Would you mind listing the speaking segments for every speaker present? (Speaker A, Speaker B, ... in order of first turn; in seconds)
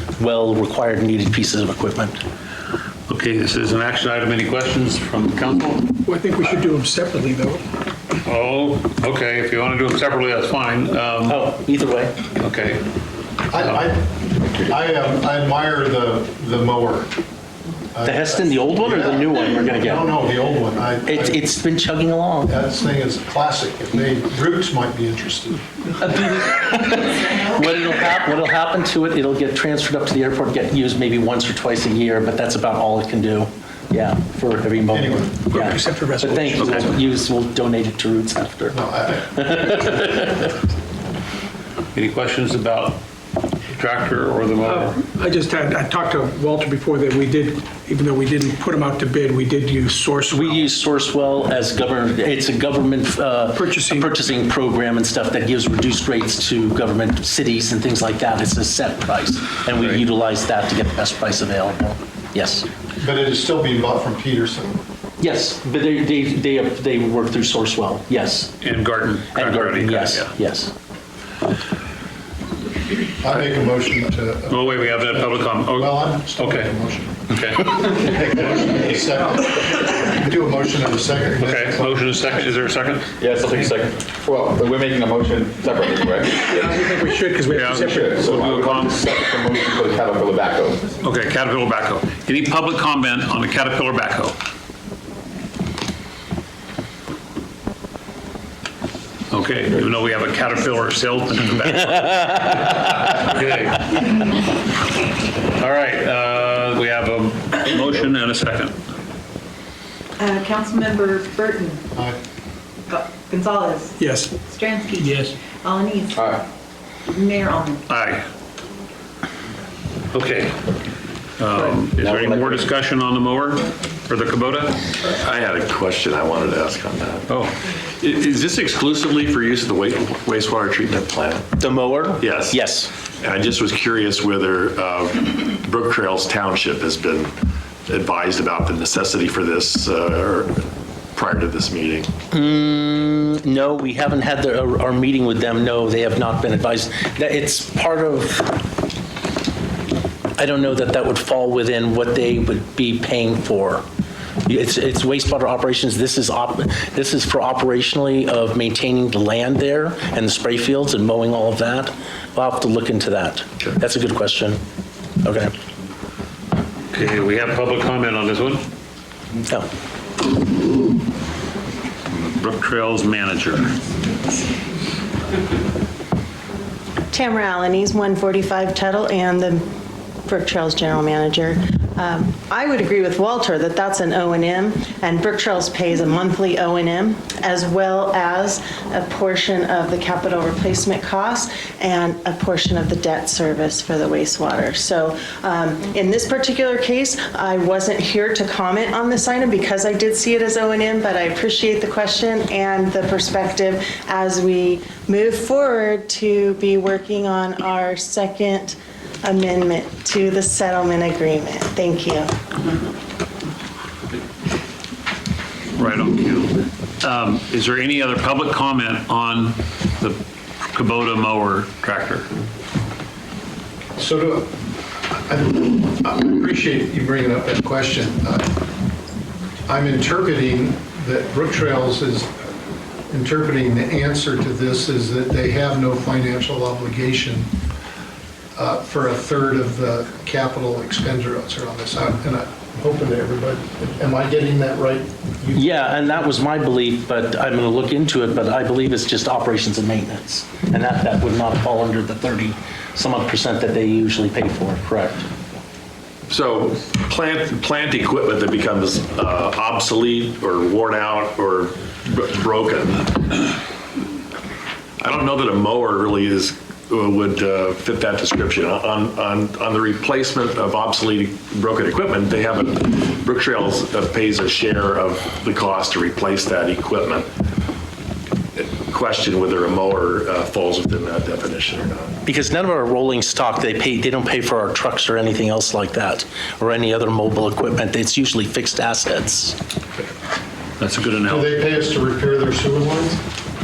Speaker A: 0.2-2.2, 11.3-12.2, 18.0-20.1, 21.0-22.5, 26.0-40.5, 50.3-62.7, 65.2-68.6, 69.3-70.7, 131.6-132.9, 142.3-148.5, 150.4-153.8, 154.4-164.6, 165.2-165.5, 245.5-255.2, 282.2-289.6
Speaker B: 3.1-5.9, 8.2-11.4, 12.4-12.8, 41.9-43.0, 43.7-45.0, 68.6-70.3, 74.5-76.7, 77.3-77.9, 81.4-83.1, 87.5-89.0, 91.0-94.3, 99.3-104.1, 105.6-108.8, 117.9-118.2, 120.1-120.6, 121.4-124.8, 127.3-127.5, 166.9-168.6, 172.3-173.7, 215.8-222.3, 290.8-291.6
Speaker C: 6.0-7.6, 35.5-36.8, 44.6-50.5, 53.5-54.1, 86.5-88.2, 114.0-114.3, 115.0-115.3
Speaker D: 13.5-17.1, 17.9-21.4, 22.4-25.6, 34.9-35.5, 38.7-39.5, 63.0-64.8, 73.2-77.2, 77.8-82.0, 224.0-228.5, 229.7-232.3, 233.1-237.5, 238.6-245.8, 291.2-293.2
Speaker E: 83.2-86.9, 87.7-90.9, 116.1-116.4, 121.5-122.7
Speaker F: 110.2-111.8, 112.9-116.4, 117.1-117.8
Speaker G: 125.0-127.2, 128.0-131.4, 132.2-132.5, 133.2-137.3, 137.9-142.1, 256.3-263.5, 265.0-277.3, 278.6-282.2
Speaker H: 177.1-179.6, 180.2-212.3